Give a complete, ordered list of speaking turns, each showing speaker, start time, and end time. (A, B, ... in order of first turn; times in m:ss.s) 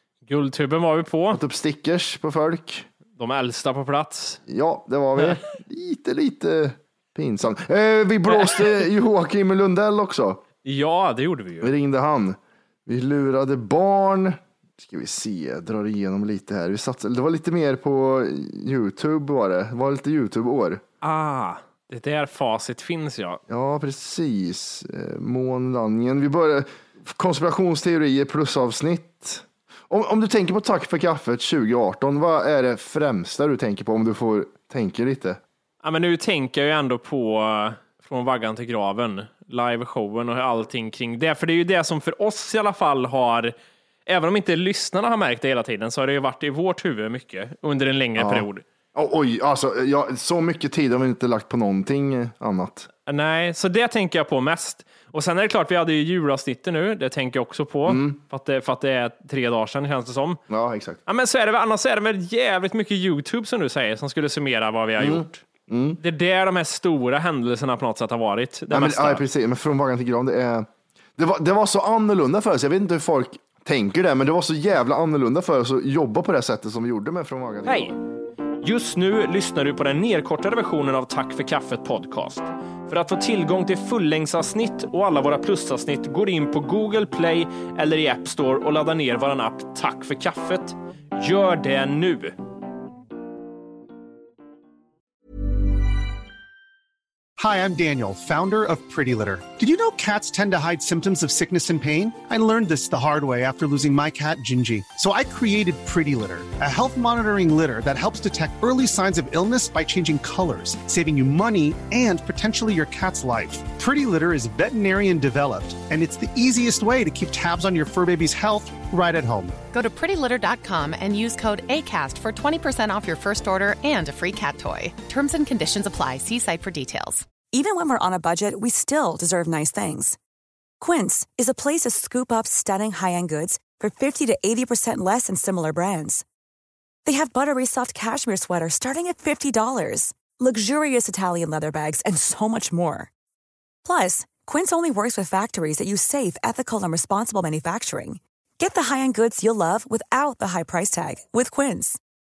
0:00.3-0:01.4 A
0:01.3-0:02.9 B
0:03.2-0:04.4 A
0:04.5-0:10.4 B
0:08.4-0:08.8 A
0:10.6-0:11.7 A
0:11.6-0:20.8 B
0:21.0-0:23.4 A
0:23.5-0:35.4 B
0:35.8-0:43.6 A
0:44.1-0:48.6 A
0:48.2-0:52.9 B
0:53.1-1:00.4 A
0:57.9-0:58.2 B
1:00.5-1:01.0 B
1:01.1-1:05.4 A
1:05.0-1:06.0 B
1:06.0-1:09.2 A
1:08.7-1:18.0 B
1:17.6-1:18.0 A
1:18.6-1:32.4 A
1:37.4-1:59.6 C
1:59.7-2:07.2 D
2:07.5-2:10.2 E
2:10.8-2:16.2 E
2:17.0-2:23.1 E
2:23.8-2:32.0 E